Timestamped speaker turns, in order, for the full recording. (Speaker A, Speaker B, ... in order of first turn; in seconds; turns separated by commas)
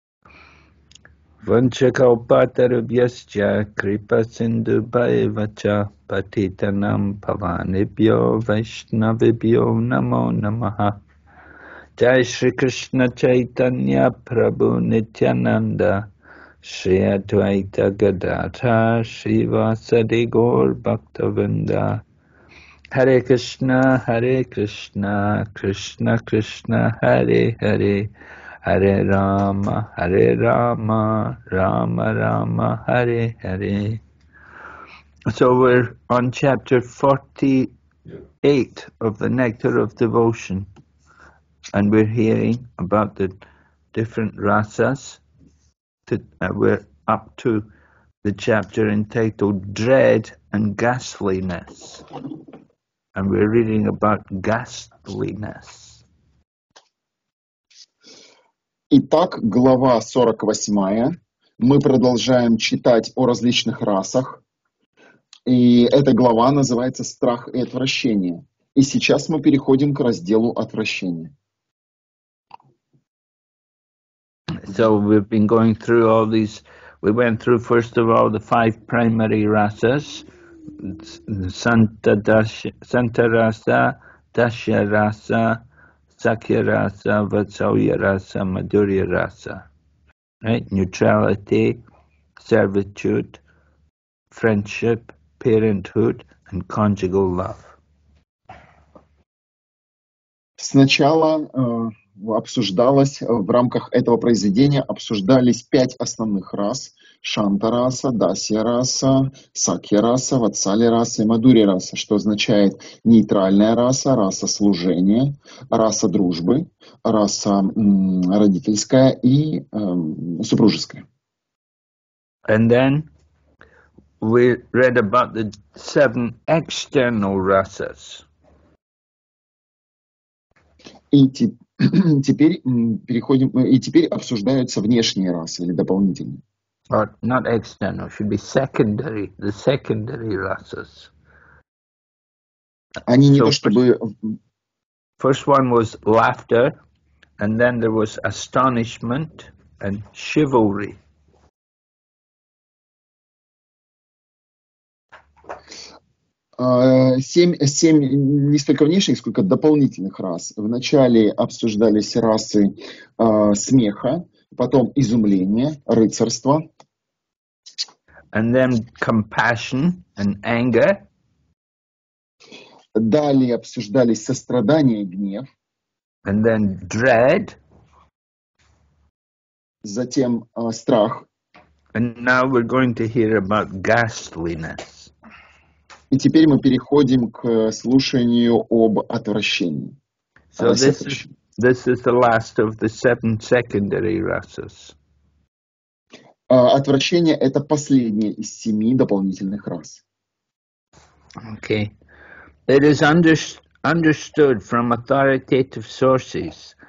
Speaker A: 1.4-11.0, Speaker A: 12.0-16.1, Speaker A: 16.6-22.0, Speaker A: 22.9-28.1, Speaker A: 28.6-34.0, Speaker A: 35.3-37.7, Speaker A: 38.4-40.7, Speaker A: 41.7-43.4, Speaker A: 43.9-45.2, Speaker A: 46.0-47.6, Speaker A: 48.2-52.0, Speaker A: 53.1-56.0, Speaker B: 58.9-64.4, Speaker B: 65.5-71.3, Speaker A: 74.6-80.2, Speaker A: 80.8-85.6, Speaker A: 86.1-89.7, Speaker A: 90.4-91.8, Speaker A: 92.4-93.4, Speaker A: 94.3-97.8, Speaker B: 100.6-121.0, Speaker A: 122.5-123.1, Speaker A: 124.2-128.2, Speaker B: 131.1-136.4, Speaker A: 136.9-141.1, Speaker B: 143.1-144.4, Speaker A: 143.3-143.8, Speaker A: 145.2-146.8, Speaker A: 147.4-151.0, Speaker B: 156.6-166.6, Speaker A: 168.3-171.0, Speaker B: 172.9-175.5, Speaker A: 176.2-177.6, Speaker B: 179.8-181.3, Speaker A: 181.9-185.1, Speaker B: 186.1-190.0, Speaker A: 190.5-194.9, Speaker B: 190.6-191.3, Speaker B: 196.5-200.0, Speaker A: 201.4-201.9, Speaker A: 202.7-206.8